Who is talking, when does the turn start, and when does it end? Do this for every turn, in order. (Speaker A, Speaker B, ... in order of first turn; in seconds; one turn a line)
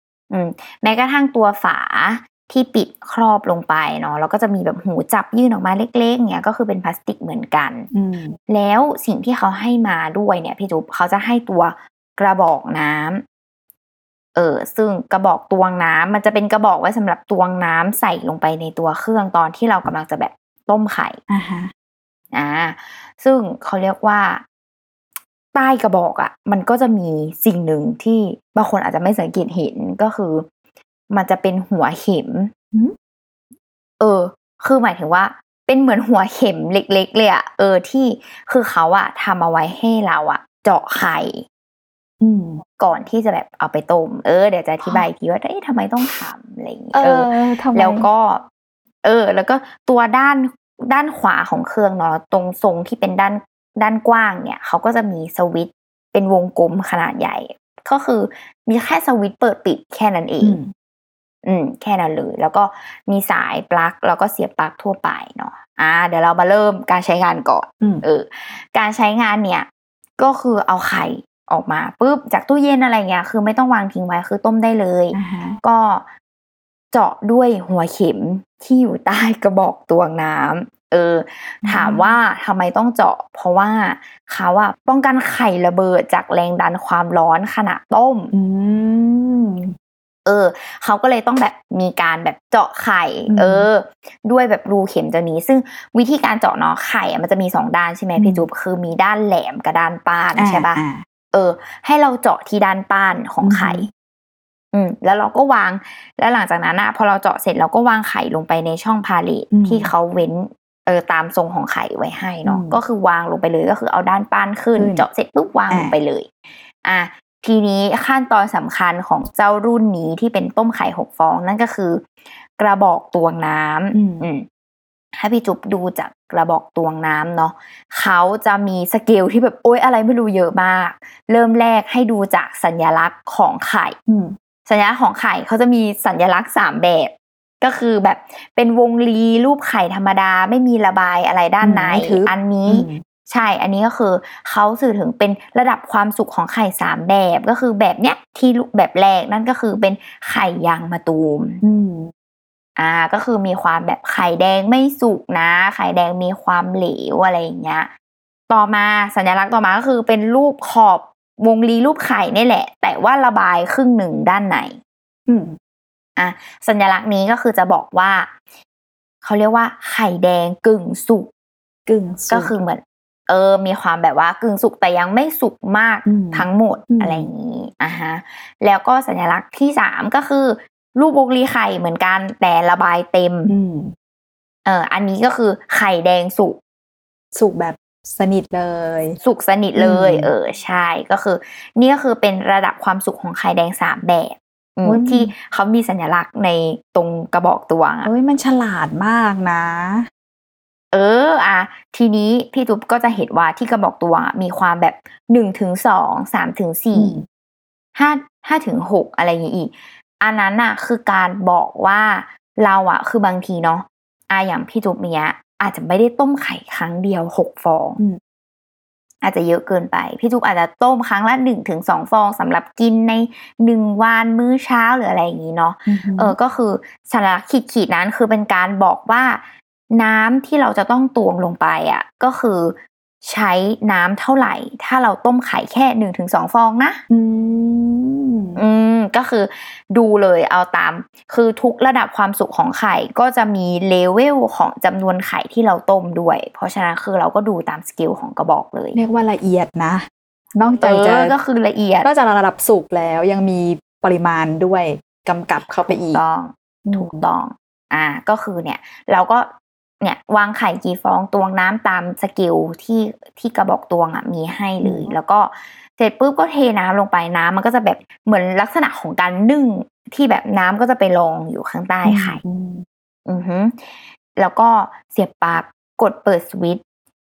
Speaker A: 0.3-7.9
Speaker B: 7.9-8.4
Speaker A: 8.5-13.2
Speaker A: 14.3-21.2
Speaker B: 21.3-21.7
Speaker A: 22.3-24.4
Speaker A: 25.5-30.5
Speaker A: 31.1-32.5
Speaker A: 34.0-41.5
Speaker B: 42.2-42.6
Speaker A: 42.8-48.5
Speaker B: 46.9-48.1
Speaker A: 49.0-60.6
Speaker B: 60.4-60.7
Speaker A: 61.4-76.1
Speaker B: 75.1-75.6
Speaker A: 76.9-88.3
Speaker B: 81.6-82.1
Speaker B: 88.3-89.8
Speaker A: 90.3-100.8
Speaker B: 93.3-93.7
Speaker B: 98.2-98.4
Speaker B: 100.4-101.0
Speaker A: 101.3-103.9
Speaker B: 103.4-103.9
Speaker A: 104.7-124.5
Speaker B: 109.5-109.9
Speaker B: 112.5-112.8
Speaker B: 114.8-115.1
Speaker B: 115.7-116.0
Speaker B: 123.9-124.3
Speaker A: 125.2-134.0
Speaker B: 134.1-134.3
Speaker A: 134.7-151.6
Speaker B: 141.6-143.0
Speaker B: 151.6-152.1
Speaker A: 152.8-157.9
Speaker A: 158.5-164.8
Speaker B: 165.3-165.6
Speaker A: 166.2-168.3
Speaker A: 169.2-171.3
Speaker B: 171.9-172.5
Speaker A: 172.3-183.5
Speaker B: 176.1-177.3
Speaker B: 183.5-183.9
Speaker A: 184.7-186.6
Speaker B: 187.3-189.2
Speaker A: 189.2-198.1
Speaker B: 189.8-190.3
Speaker B: 194.8-195.3
Speaker B: 198.0-200.1
Speaker A: 200.9-207.2
Speaker B: 206.9-207.2
Speaker A: 207.9-218.0
Speaker A: 219.2-237.0
Speaker B: 225.9-226.4
Speaker B: 237.1-238.6
Speaker A: 238.6-249.0
Speaker B: 248.9-251.3
Speaker A: 250.8-252.1
Speaker B: 252.0-256.2
Speaker A: 255.9-259.5
Speaker B: 256.9-257.2
Speaker A: 260.0-272.4
Speaker B: 264.8-265.1
Speaker B: 272.1-272.9
Speaker A: 273.3-273.8
Speaker A: 274.3-276.8